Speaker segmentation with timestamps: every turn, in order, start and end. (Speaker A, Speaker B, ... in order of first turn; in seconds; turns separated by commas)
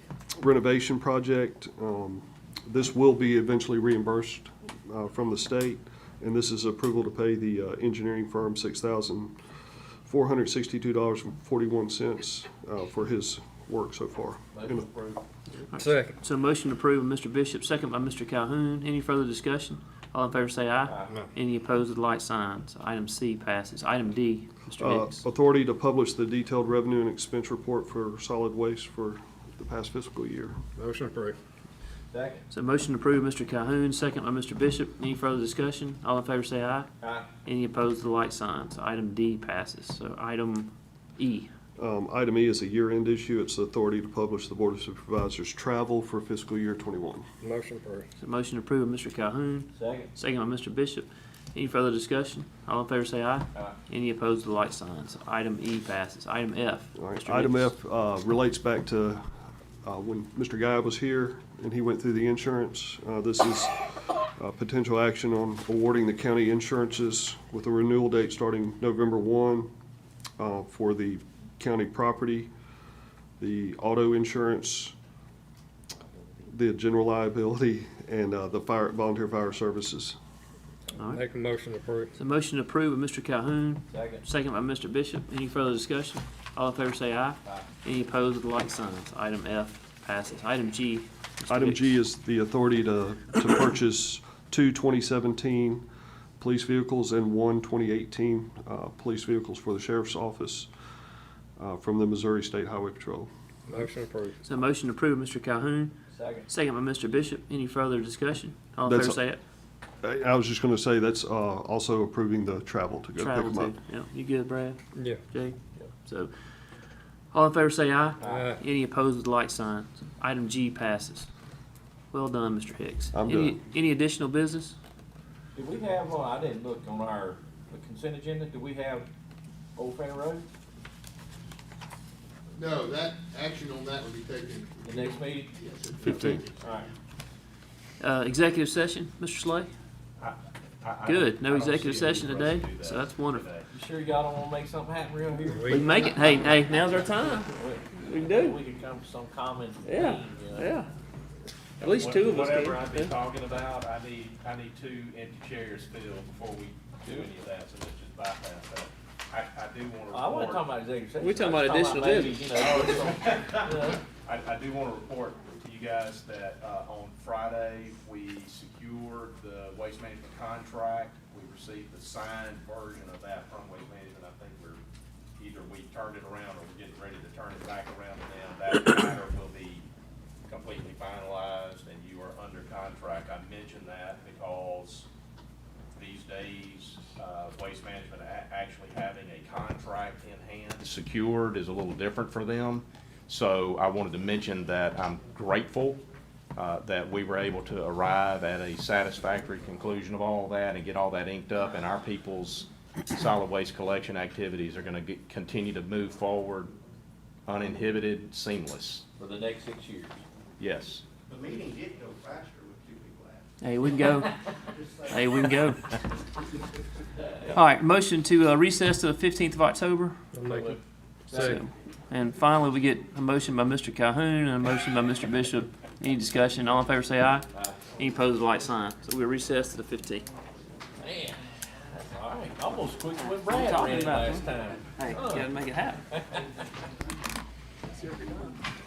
Speaker A: 0.4-9.3, Speaker A: 10.0-14.9, Speaker B: 14.5-15.2, Speaker C: 15.7-25.2, Speaker D: 15.8-16.1, Speaker B: 20.9-21.1, Speaker A: 24.8-30.6, Speaker D: 30.8-31.4, Speaker B: 32.1-32.5, Speaker C: 32.5-36.9, Speaker B: 37.0-37.3, Speaker C: 37.4-41.5, Speaker A: 41.8-47.3, Speaker D: 47.4-48.1, Speaker C: 48.2-57.7, Speaker B: 49.7-50.1, Speaker A: 57.0-59.3, Speaker A: 59.8-69.7, Speaker A: 70.4-72.5, Speaker A: 73.4-74.9, Speaker A: 76.5-80.2, Speaker C: 80.9-81.2, Speaker D: 81.0-82.1, Speaker C: 82.2-91.9, Speaker B: 83.9-84.2, Speaker A: 91.5-95.8, Speaker A: 96.4-100.7, Speaker A: 101.6-103.3, Speaker D: 103.7-104.4, Speaker C: 104.4-105.9, Speaker B: 106.1-106.5, Speaker C: 106.5-109.4, Speaker A: 108.8-109.2, Speaker A: 110.0-113.7, Speaker C: 113.2-116.3, Speaker D: 114.9-115.2, Speaker C: 117.3-121.3, Speaker D: 118.2-118.6, Speaker B: 118.2-118.5, Speaker C: 122.1-124.8, Speaker A: 123.1-123.6, Speaker B: 125.5-129.1, Speaker B: 129.8-130.4, Speaker E: 132.5-136.9, Speaker B: 134.8-135.6, Speaker A: 136.0-136.4, Speaker B: 136.5-136.9, Speaker C: 138.0-139.7, Speaker F: 140.2-143.7, Speaker C: 141.0-143.5, Speaker B: 143.7-146.3, Speaker D: 145.5-145.8, Speaker C: 145.7-148.6, Speaker B: 146.9-150.7, Speaker C: 149.8-150.9, Speaker C: 151.8-153.1, Speaker F: 151.8-160.7, Speaker B: 157.0-157.3, Speaker B: 160.1-164.0, Speaker C: 161.2-162.4, Speaker F: 162.5-174.8, Speaker F: 175.4-179.8, Speaker F: 180.5-185.1, Speaker F: 185.9-196.0, Speaker F: 196.6-206.7, Speaker F: 207.4-209.1, Speaker B: 209.2-210.2, Speaker F: 210.6-211.0, Speaker G: 211.3-213.4, Speaker C: 213.6-214.3, Speaker G: 214.9-215.3, Speaker C: 215.0-215.9, Speaker C: 217.5-220.2, Speaker D: 220.3-220.8, Speaker B: 220.5-221.5, Speaker D: 221.3-221.6, Speaker C: 221.3-227.4, Speaker B: 227.5-227.8, Speaker C: 228.0-230.2, Speaker B: 231.0-235.5, Speaker C: 233.4-236.0, Speaker B: 236.1-236.4